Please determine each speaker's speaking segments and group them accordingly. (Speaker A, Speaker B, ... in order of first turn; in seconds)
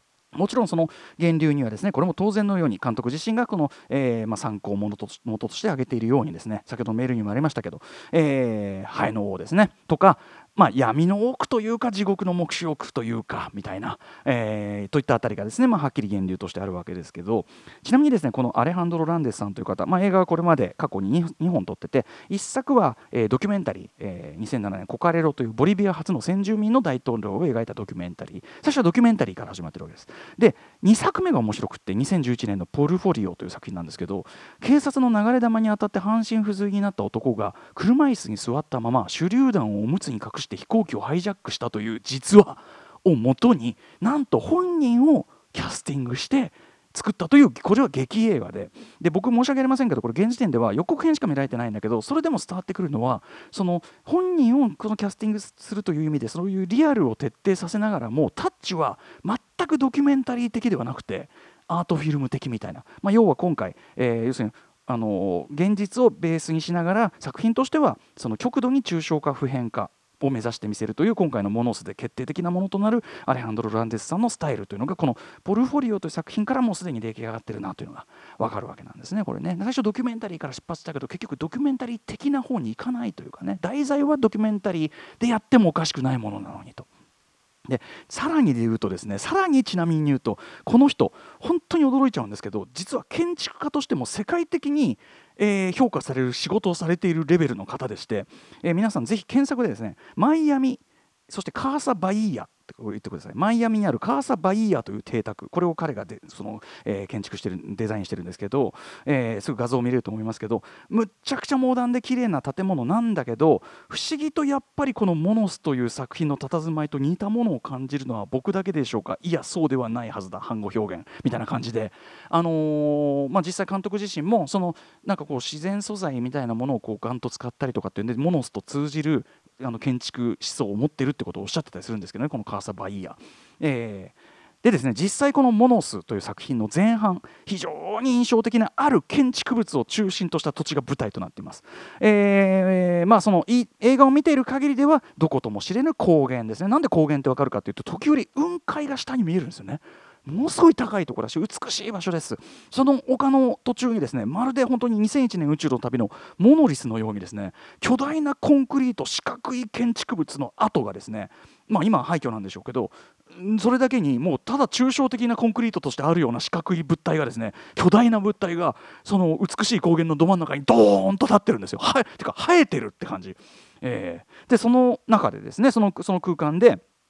Speaker A: 0.3-86.9, 87.7-176.8